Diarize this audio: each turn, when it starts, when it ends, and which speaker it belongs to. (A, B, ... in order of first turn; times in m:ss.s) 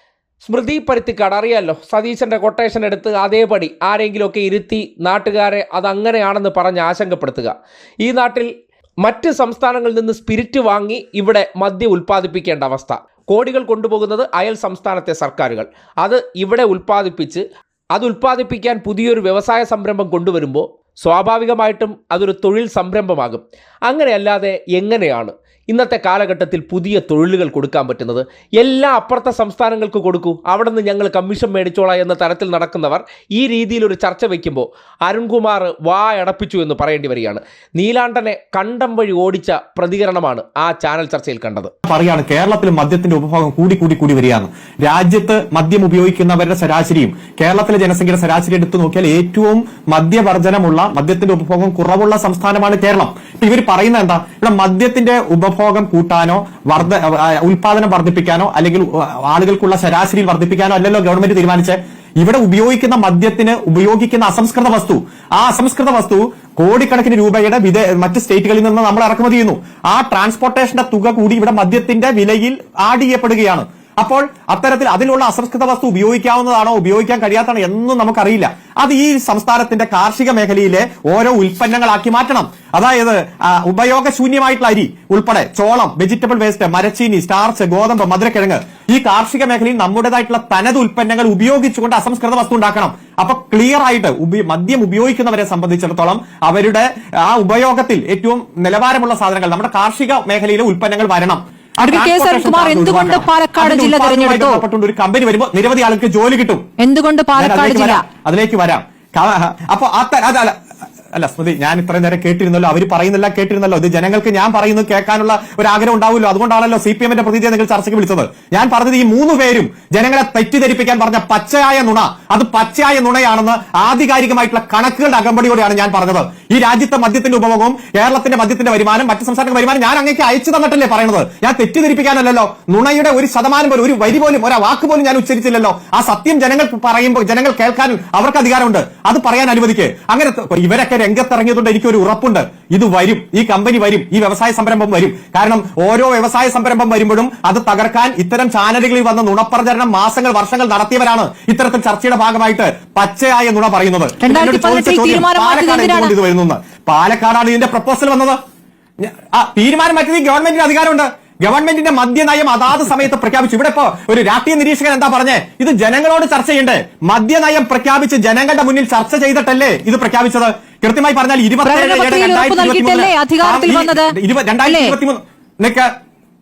0:00.4-0:41.7 A
0:41.8-1:46.6 B
1:41.9-1:44.6 C
1:46.8-1:48.0 C
1:47.4-1:50.5 B
1:51.1-2:38.4 B
2:34.2-2:36.1 C
2:39.0-2:55.9 B
2:51.6-2:54.1 C
2:54.7-2:55.0 C